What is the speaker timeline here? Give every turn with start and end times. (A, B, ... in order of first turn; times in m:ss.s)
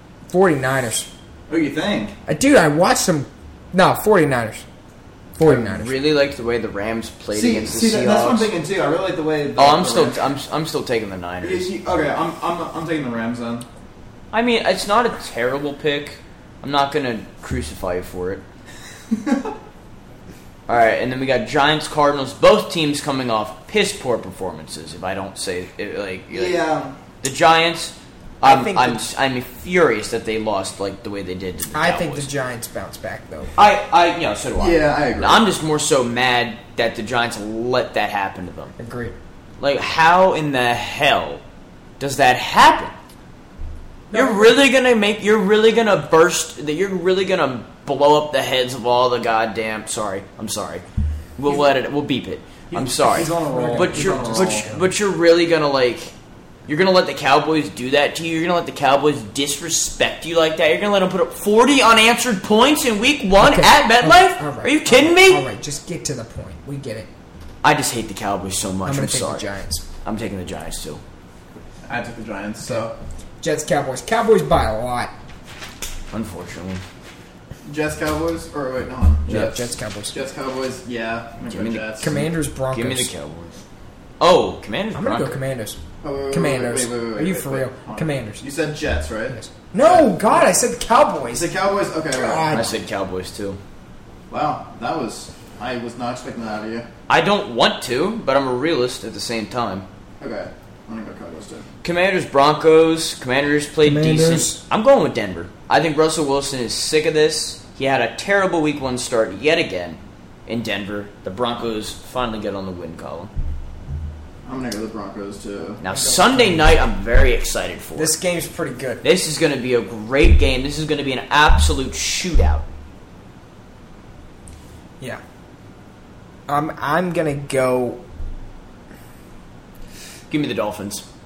0:00.3-0:01.1 A
0:01.5-0:02.2 B
0:02.3-0:04.6 A
0:05.4-0:05.9 A
0:05.4-0:08.5 C
0:07.3-0:10.3 B
0:09.6-0:11.7 C
0:11.4-0:13.6 B
0:14.3-0:18.4 C
0:19.1-0:19.5 B
0:20.7-0:26.6 C
0:26.3-0:26.9 B
0:27.2-0:32.3 C
0:28.4-0:29.0 A
0:31.7-0:33.6 A
0:33.6-0:38.7 C
0:34.6-0:35.4 B
0:38.8-0:39.2 A
0:39.6-0:41.4 C
0:42.0-0:42.9 C
0:44.1-0:44.5 A
0:44.1-0:50.8 C
0:51.4-0:56.1 C
0:52.7-0:54.7 B
0:53.4-0:54.9 A
0:56.7-1:05.4 C
1:03.4-1:07.1 A
1:07.6-1:09.5 C
1:08.8-1:09.8 A
1:10.0-1:11.0 C
1:11.9-1:12.9 B
1:13.4-1:15.1 A
1:16.1-1:16.8 C
1:17.6-1:19.6 B
1:19.3-1:20.1 A
1:20.1-1:22.1 B
1:21.4-1:23.6 C
1:22.0-1:23.1 A
1:24.2-1:25.4 C
1:24.9-1:25.8 A
1:26.0-1:30.4 B
1:26.3-1:28.4 A
1:29.3-1:31.5 A
1:31.3-1:32.6 B
1:32.1-1:32.7 A
1:32.5-1:33.6 C
1:34.3-1:36.9 B
1:37.1-1:39.8 C
1:40.2-1:41.7 B
1:41.8-1:53.3 C
1:43.8-1:44.6 A
1:54.4-1:55.8 B
1:55.8-1:58.1 C
1:55.9-1:56.7 A
1:58.0-1:59.0 A
1:59.0-2:02.6 C
2:06.5-2:08.0 A
2:10.3-2:11.0 C